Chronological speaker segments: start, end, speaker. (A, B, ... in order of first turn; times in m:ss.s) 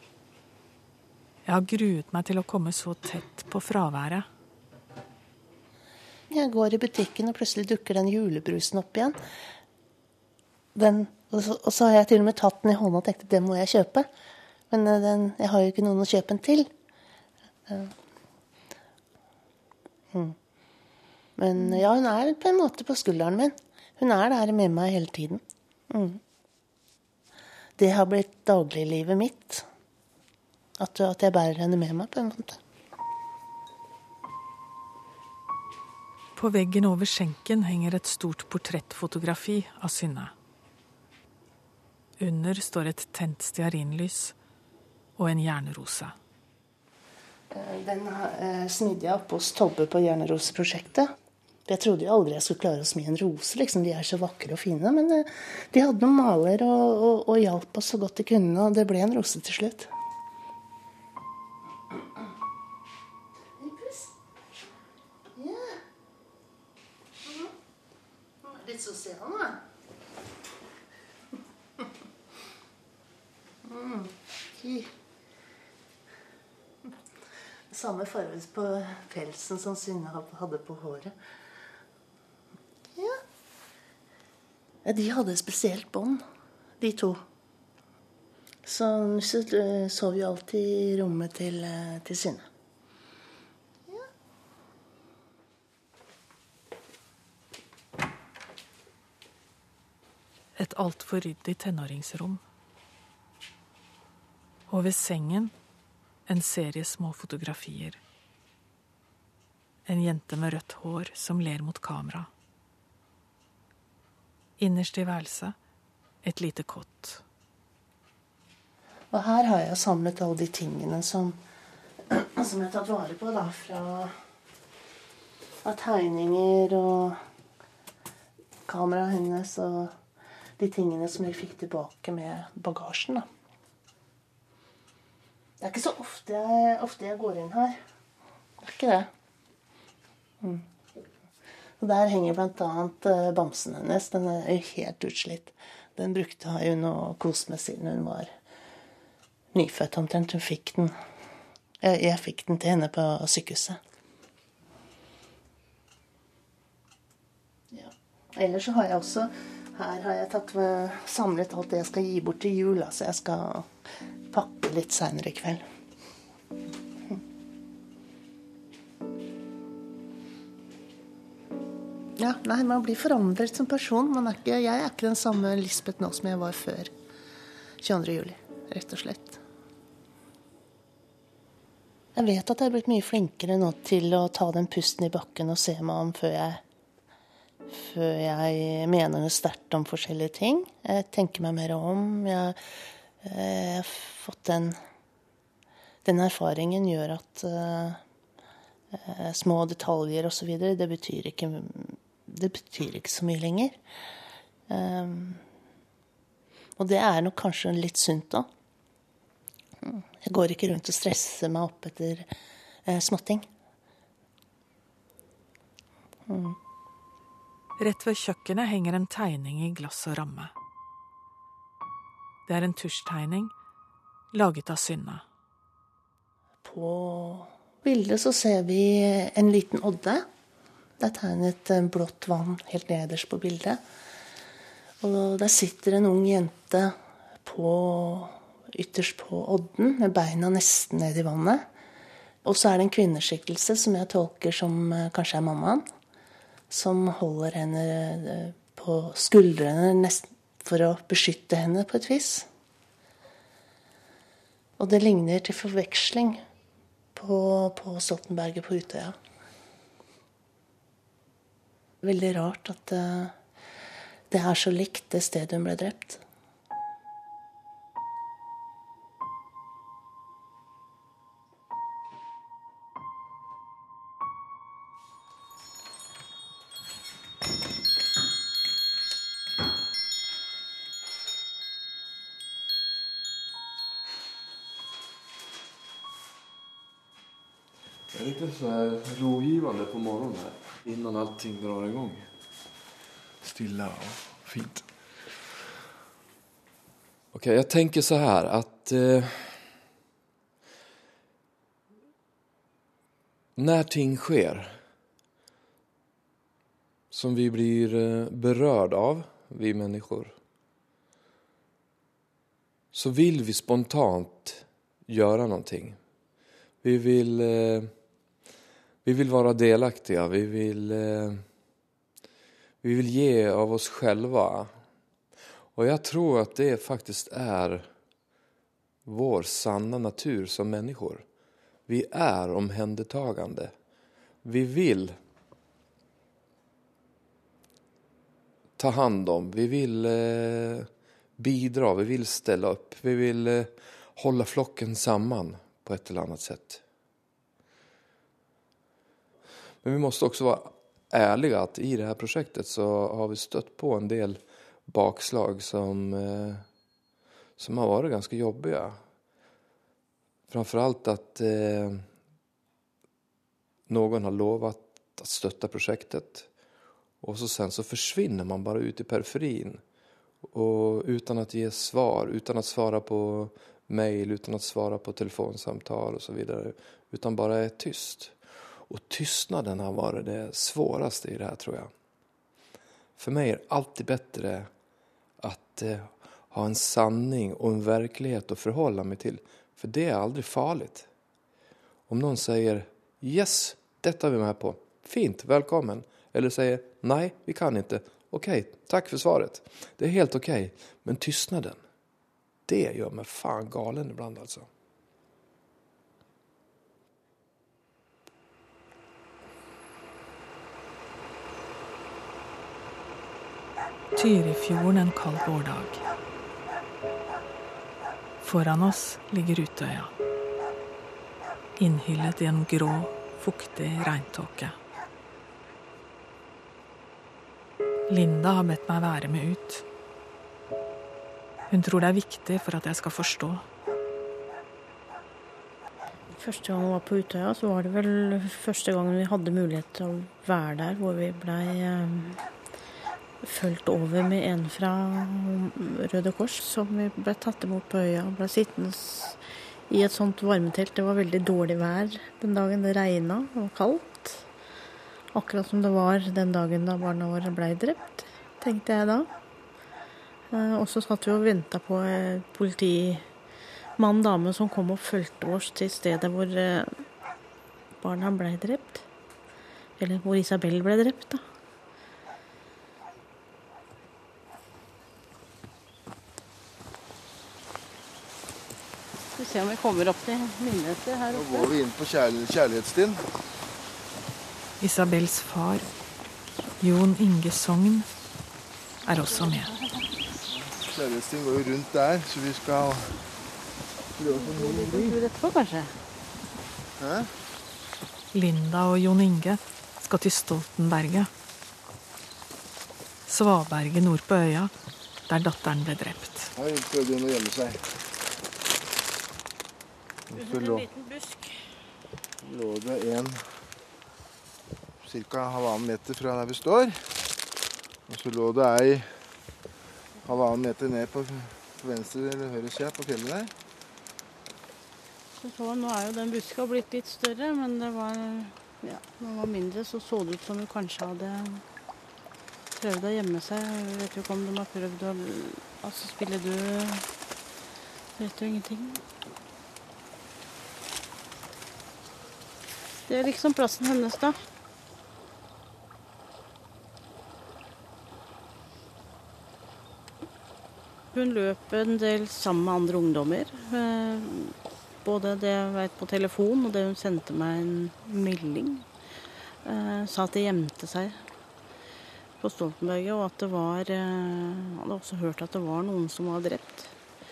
0:01.4-0:04.2 A
0:06.3-0:09.2 B
0:10.7-0:14.1 B
0:14.7-0:16.7 B
0:17.7-0:17.9 B
0:20.1-0:20.4 B
0:21.4-0:26.2 B
0:27.8-0:29.6 B
0:30.8-0:32.6 B
0:36.3-0:40.3 A
0:42.2-0:44.3 A
0:45.2-0:46.1 A
0:47.5-0:51.1 B
0:51.6-0:59.9 B
1:03.6-1:04.1 B
1:05.3-1:05.8 B
1:07.2-1:07.5 B
1:08.4-1:09.6 B
1:13.6-1:14.9 B
1:17.7-1:21.1 B
1:22.9-1:23.2 B
1:24.8-1:26.2 B
1:26.8-1:27.2 B
1:28.6-1:32.4 B
1:40.6-1:42.4 A
1:44.7-1:45.5 A
1:46.2-1:48.0 A
1:49.8-1:52.3 A
1:54.6-1:55.5 A
1:56.2-1:57.2 A
1:59.1-2:01.4 B
2:02.1-2:04.2 B
2:05.6-2:07.2 B
2:08.7-2:09.9 B
2:10.6-2:13.3 B
2:15.6-2:17.8 B
2:18.6-2:19.1 B
2:20.4-2:20.6 B
2:21.8-2:28.3 B
2:29.5-2:30.9 B
2:31.8-2:33.8 B
2:37.7-2:43.7 B
2:44.3-2:45.6 B
2:52.2-2:56.9 B
2:57.8-2:59.4 B
3:02.1-3:06.6 B
3:07.7-3:12.6 B
3:13.2-3:14.8 B
3:16.0-3:18.0 B
3:18.9-3:23.8 B
3:24.7-3:25.4 B
3:26.8-3:28.5 B
3:29.8-3:32.3 B
3:32.8-3:33.5 B
3:36.3-3:36.6 B
3:37.8-3:40.5 A
3:42.4-3:43.5 A
3:44.3-3:45.2 A
3:46.6-3:50.2 B
3:51.0-3:53.8 B
3:55.0-4:01.6 B
4:02.4-4:05.8 B
4:06.7-4:12.5 B
4:14.8-4:16.4 B
4:17.1-4:19.2 B
4:22.0-4:23.4 B
4:24.3-4:26.2 B
4:48.1-4:52.3 C
4:53.4-4:54.8 C
4:57.3-4:59.7 C
5:03.6-5:04.8 C
5:07.1-5:10.3 C
5:12.9-5:16.0 C
5:16.8-5:17.9 C
5:19.0-5:21.4 C
5:22.8-5:24.7 C
5:25.7-5:27.9 C
5:29.0-5:31.2 C
5:31.9-5:33.7 C
5:34.4-5:35.1 C
5:38.8-5:46.8 C
5:49.8-5:56.6 C
5:57.6-5:59.0 C
6:00.5-6:02.0 C
6:03.9-6:06.5 C
6:07.2-6:09.8 C
6:10.5-6:21.9 C
6:23.2-6:24.7 C
6:25.4-6:31.1 C
6:32.1-6:41.8 C
6:42.7-6:44.7 C
6:54.1-6:56.0 A
6:58.4-7:00.1 A
7:01.8-7:04.7 A
7:08.1-7:09.8 A
7:11.7-7:13.6 A
7:16.4-7:22.4 D
7:23.4-7:34.4 D
7:35.3-7:39.3 D
7:40.5-7:43.2 D
7:44.0-7:46.9 D
7:48.0-7:49.0 D
7:50.0-7:51.4 D
7:59.4-8:01.7 D
8:01.3-8:03.2 E
8:04.8-8:05.9 A
8:06.8-8:08.1 A
8:09.0-8:09.7 A
8:09.4-8:09.7 D
8:10.8-8:13.2 E
8:14.2-8:15.1 E
8:14.3-8:15.9 D
8:17.0-8:17.3 E
8:18.3-8:21.3 A
8:23.2-8:24.7 A
8:25.3-8:26.5 A
8:26.5-8:27.8 E
8:30.3-8:30.8 E
8:30.3-8:31.8 D
8:32.4-8:33.4 E
8:35.0-8:37.0 E
8:38.1-8:39.1 E
8:40.2-8:43.5 E
8:45.4-8:51.6 D
8:52.7-8:57.0 D
8:58.2-8:59.0 D
9:03.1-9:04.4 D
9:11.1-9:18.8 D
9:19.6-9:21.2 D
9:22.4-9:26.9 D